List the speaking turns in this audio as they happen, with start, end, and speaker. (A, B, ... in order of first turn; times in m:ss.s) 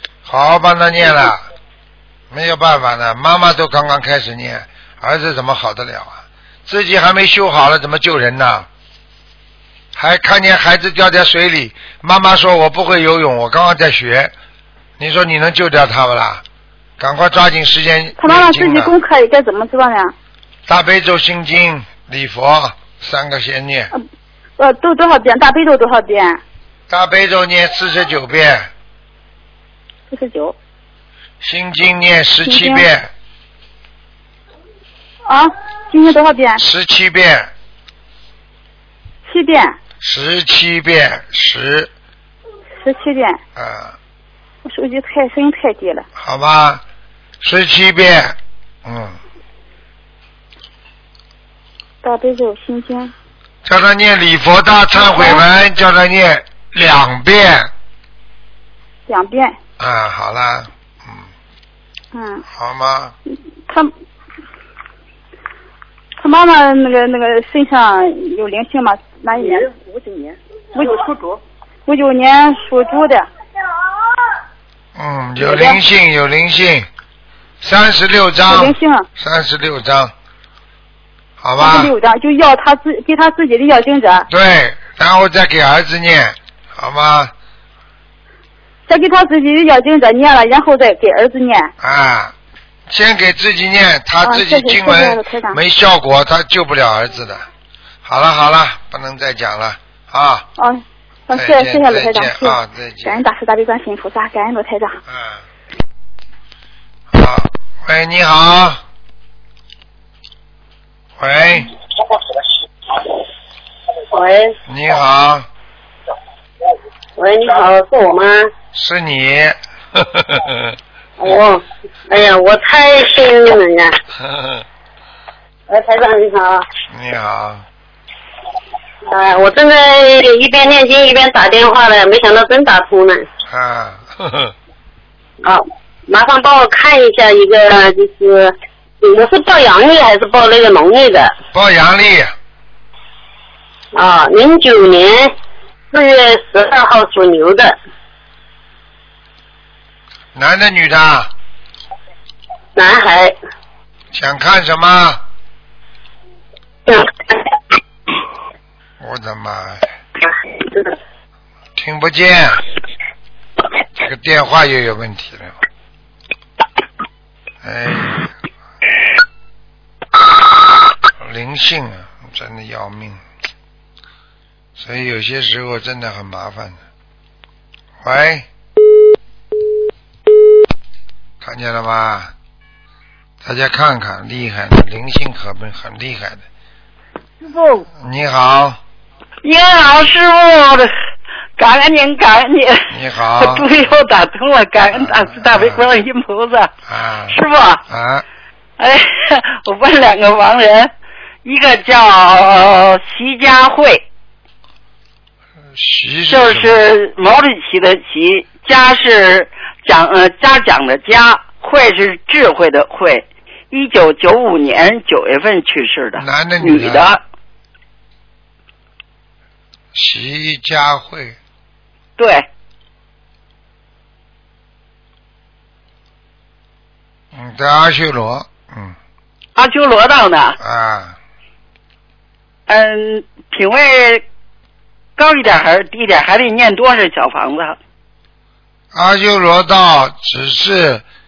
0:00.2-0:01.4 A
0:02.3-0:08.7 A
0:09.9-0:14.3 A
0:15.0-0:16.4 A
0:17.0-0:18.9 A
0:18.2-0:20.1 B
0:20.7-0:23.9 A
0:24.6-0:26.4 B
0:26.9-0:28.7 A
0:30.1-0:30.5 B
0:31.4-0:33.1 A
0:32.4-0:32.9 B
0:35.3-0:36.6 B
0:36.6-0:37.5 A
0:39.3-0:39.8 B
0:40.0-0:41.9 A
0:42.8-0:43.4 B
0:43.6-0:44.0 A
0:44.6-0:46.0 B
0:46.2-0:46.8 A
0:47.4-0:49.2 A
0:52.0-0:53.1 B
0:53.6-0:57.7 A
0:55.0-0:55.4 B
0:59.1-0:59.6 B
0:59.8-1:01.3 A
1:02.1-1:02.4 B
1:02.5-1:03.1 A
1:06.2-1:09.6 B
1:09.3-1:11.4 C
1:10.8-1:11.0 B
1:11.9-1:13.3 B
1:14.9-1:16.9 A
1:15.4-1:15.8 B
1:17.6-1:20.1 A
1:18.4-1:19.1 B
1:21.4-1:22.0 A
1:21.6-1:24.2 B
1:24.3-1:27.3 A
1:28.9-1:31.7 B
1:31.8-1:32.3 A
1:32.9-1:37.4 A
1:34.2-1:35.6 B
1:38.0-1:40.5 A
1:40.6-1:45.0 B
1:41.3-1:43.2 A
1:45.1-1:45.4 A
1:47.1-1:48.8 A
1:51.2-1:51.7 A
1:54.1-1:54.5 D
1:54.7-1:55.5 A
1:57.2-1:58.5 D
1:58.7-2:00.7 A
2:01.2-2:03.9 D
2:04.2-2:04.6 A
2:05.7-2:06.6 D
2:06.9-2:07.6 A
2:09.1-2:13.3 D
2:13.5-2:14.5 A
2:15.4-2:21.3 D
2:21.5-2:22.3 A
2:23.9-2:25.3 D
2:25.9-2:27.8 D
2:30.3-2:31.3 A
2:32.8-2:33.4 D
2:34.1-2:35.2 A
2:36.9-2:37.4 D
2:39.0-2:39.9 A
2:41.7-2:42.6 A
2:44.0-2:45.6 A
2:47.6-2:48.3 A
2:51.2-2:53.2 A
2:54.8-2:56.8 A
2:58.0-2:58.5 A
3:01.4-3:02.3 A
3:03.4-3:06.4 A
3:07.4-3:07.8 E
3:07.9-3:08.8 A
3:09.4-3:10.9 E
3:11.6-3:16.7 E
3:12.9-3:13.7 A
3:14.9-3:15.8 A
3:16.9-3:18.2 A
3:17.3-3:17.8 E
3:18.8-3:20.9 E
3:21.4-3:24.0 E
3:25.7-3:26.8 A
3:26.3-3:37.2 E
3:36.2-3:37.1 A
3:39.9-3:41.4 A
3:42.2-3:42.4 E
3:47.3-3:49.0 A
3:49.6-3:50.6 E
3:50.6-3:51.2 A
3:52.7-3:54.2 E
3:55.2-3:57.8 E
3:58.9-4:01.0 A